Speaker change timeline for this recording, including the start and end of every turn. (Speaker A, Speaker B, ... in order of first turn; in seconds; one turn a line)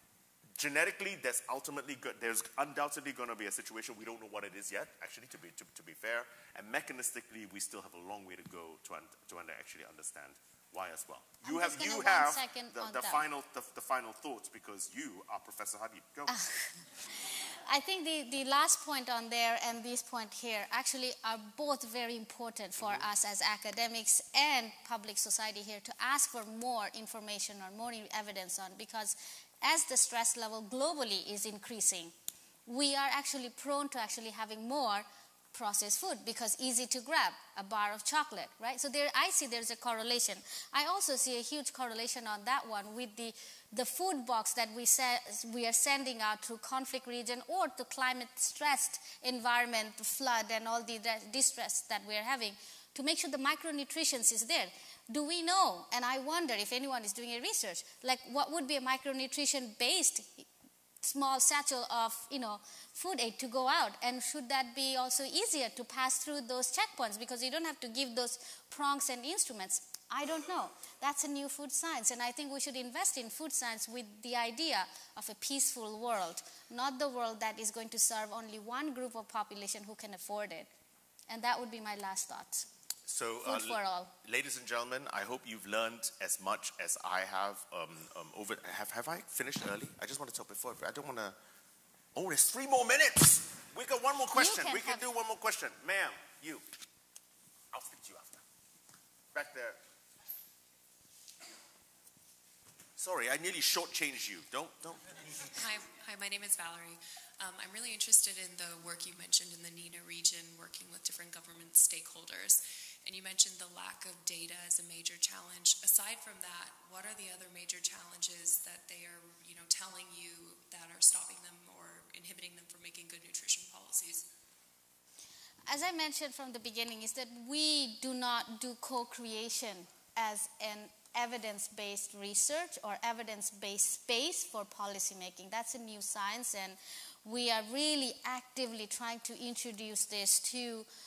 Speaker A: 0.6-16.4
Speaker B: 11.4-13.2
Speaker B: 16.3-32.1
Speaker A: 22.8-23.1
Speaker B: 32.7-60.5
Speaker B: 61.0-80.7
Speaker B: 81.3-82.7
Speaker A: 83.1-91.4
Speaker B: 83.5-84.1
Speaker A: 92.2-96.7
Speaker B: 94.3-95.0
Speaker A: 97.7-98.4
Speaker A: 99.3-99.8
Speaker A: 103.0-105.5
Speaker C: 105.5-124.3
Speaker B: 125.7-140.9